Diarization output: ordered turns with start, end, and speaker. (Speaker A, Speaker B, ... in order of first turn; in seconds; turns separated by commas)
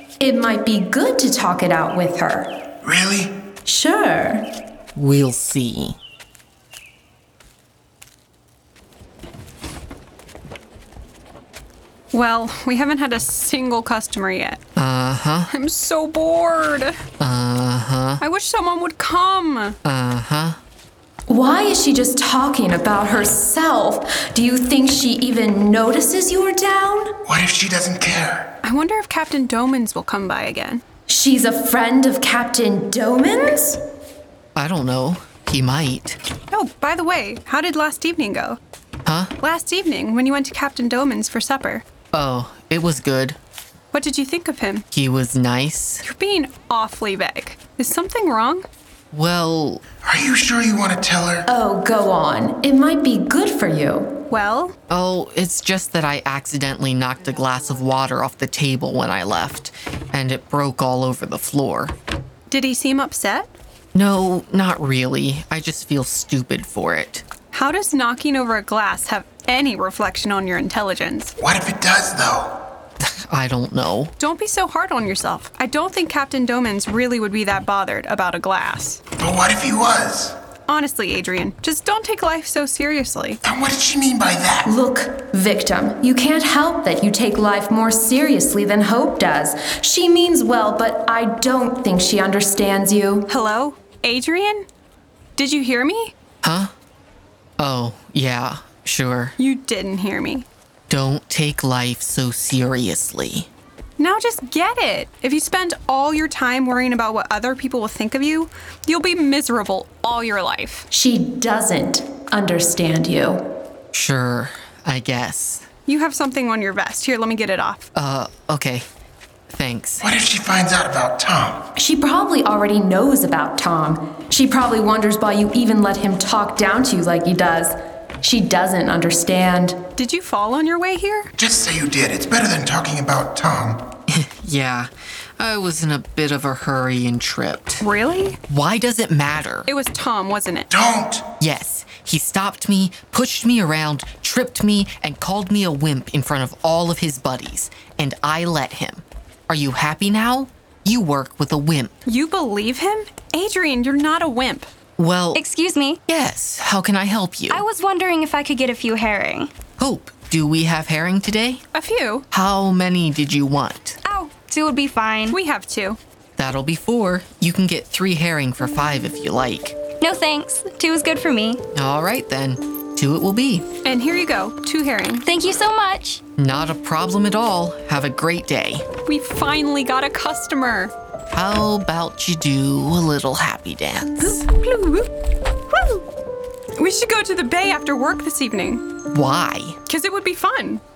Speaker A: 0.2-2.5, Speaker B: 2.8-3.2, Speaker A: 3.6-4.5, Speaker C: 4.9-6.0, Speaker D: 12.1-14.6, Speaker C: 14.8-15.5, Speaker D: 15.5-16.9, Speaker C: 17.2-18.2, Speaker D: 18.2-19.8, Speaker C: 19.8-20.6, Speaker A: 21.3-27.1, Speaker B: 27.3-28.3, Speaker D: 28.6-30.8, Speaker A: 31.1-33.8, Speaker C: 34.5-36.2, Speaker D: 36.5-38.6, Speaker C: 39.0-39.3, Speaker D: 39.4-41.8, Speaker C: 42.1-43.4, Speaker D: 43.9-44.8, Speaker C: 44.9-46.0, Speaker D: 46.0-48.6, Speaker C: 49.1-49.8, Speaker B: 50.0-51.4, Speaker A: 51.5-54.1, Speaker D: 54.3-54.7, Speaker C: 54.9-61.9, Speaker D: 62.5-63.5, Speaker C: 63.9-67.2, Speaker D: 67.5-71.3, Speaker B: 71.4-72.5, Speaker C: 73.0-74.1, Speaker D: 74.2-79.0, Speaker B: 79.2-80.3, Speaker D: 80.7-83.4, Speaker B: 83.5-84.6, Speaker A: 84.6-93.2, Speaker D: 93.3-94.7, Speaker D: 95.4-96.1, Speaker C: 96.4-96.7, Speaker C: 97.6-99.3, Speaker D: 99.4-100.5, Speaker C: 100.9-103.5, Speaker D: 104.0-110.8, Speaker A: 110.9-113.4, Speaker C: 113.9-115.7, Speaker D: 115.8-117.8, Speaker C: 117.9-118.8, Speaker C: 119.5-120.0, Speaker B: 120.1-121.6, Speaker A: 121.8-129.8, Speaker D: 130.0-131.3, Speaker B: 131.4-133.8, Speaker C: 134.1-137.8, Speaker D: 137.8-138.4, Speaker C: 138.5-139.7, Speaker D: 139.7-140.7, Speaker B: 140.7-141.2, Speaker C: 141.4-151.9, Speaker D: 152.1-154.7, Speaker C: 155.0-155.4, Speaker E: 155.3-156.0, Speaker C: 156.1-157.6, Speaker E: 157.5-159.5, Speaker C: 159.8-161.6, Speaker D: 161.7-162.2, Speaker C: 162.3-164.0, Speaker D: 164.0-164.5, Speaker E: 164.5-165.4, Speaker D: 165.3-166.0, Speaker C: 166.4-169.8, Speaker E: 170.0-171.6, Speaker C: 171.7-173.7, Speaker D: 173.8-175.2, Speaker E: 175.2-176.2, Speaker C: 176.4-178.8, Speaker D: 179.1-180.9, Speaker C: 181.3-184.4, Speaker D: 184.6-185.1, Speaker D: 185.7-186.0, Speaker D: 186.8-188.8, Speaker C: 189.1-189.8, Speaker D: 189.9-190.8